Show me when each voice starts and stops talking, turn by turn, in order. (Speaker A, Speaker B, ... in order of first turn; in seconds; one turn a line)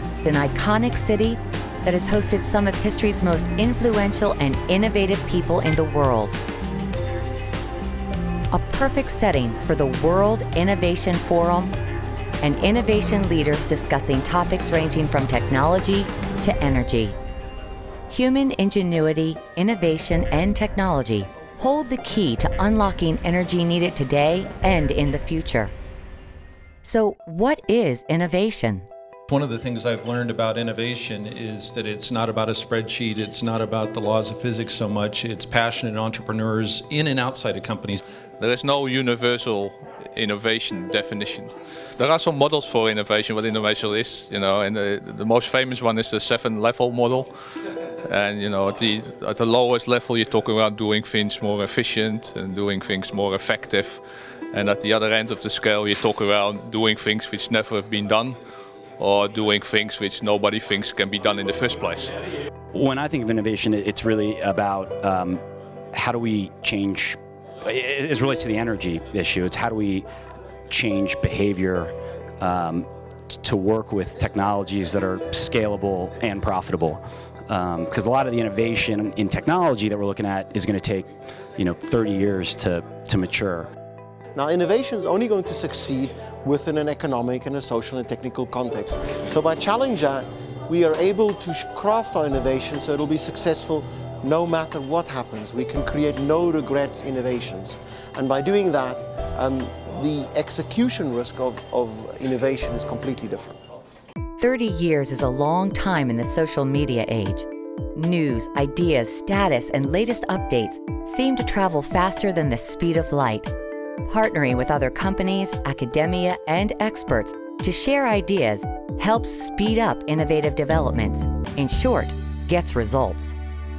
Speaker A: 0.2-6.4
Speaker A: 8.5-11.7
Speaker A: 12.4-17.1
Speaker A: 18.1-25.7
Speaker A: 26.8-28.9
Speaker B: 29.3-38.0
Speaker C: 38.4-47.3
Speaker C: 48.1-58.4
Speaker C: 59.0-62.1
Speaker D: 62.8-65.4
Speaker D: 66.0-70.0
Speaker D: 70.7-72.9
Speaker D: 73.4-81.1
Speaker D: 81.6-83.7
Speaker E: 84.3-103.6
Speaker A: 104.4-113.5
Speaker A: 114.1-123.4